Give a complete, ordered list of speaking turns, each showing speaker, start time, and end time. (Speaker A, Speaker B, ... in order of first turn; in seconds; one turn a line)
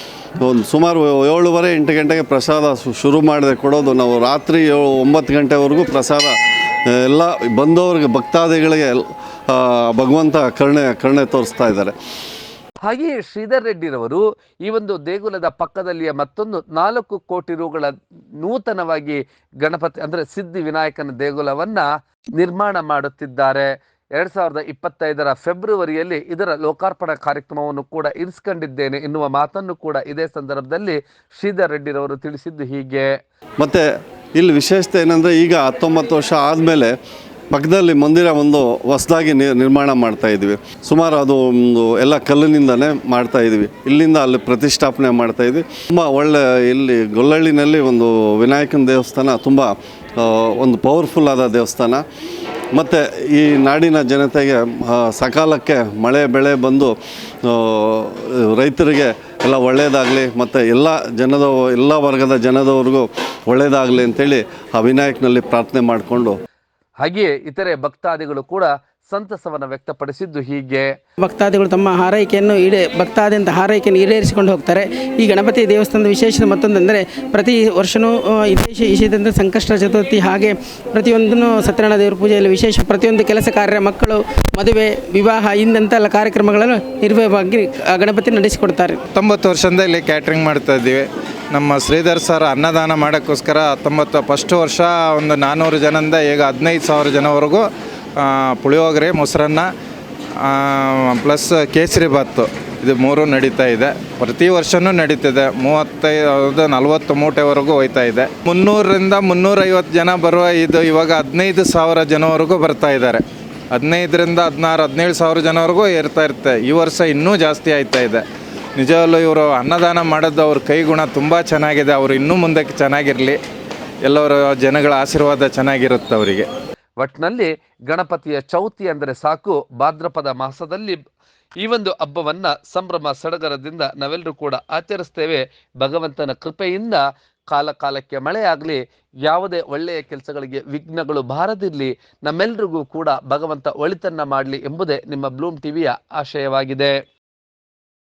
Speaker A: 0.4-6.3
Speaker A: 6.9-11.9
Speaker B: 12.8-33.1
Speaker A: 33.6-33.8
Speaker A: 34.4-36.9
Speaker A: 37.5-52.0
Speaker A: 52.7-66.4
Speaker B: 67.0-70.9
Speaker C: 71.2-89.0
Speaker D: 89.1-97.7
Speaker D: 98.2-99.7
Speaker D: 100.4-113.2
Speaker D: 113.7-118.2
Speaker D: 118.8-123.4
Speaker D: 124.0-126.5
Speaker B: 127.0-131.0
Speaker B: 131.6-146.9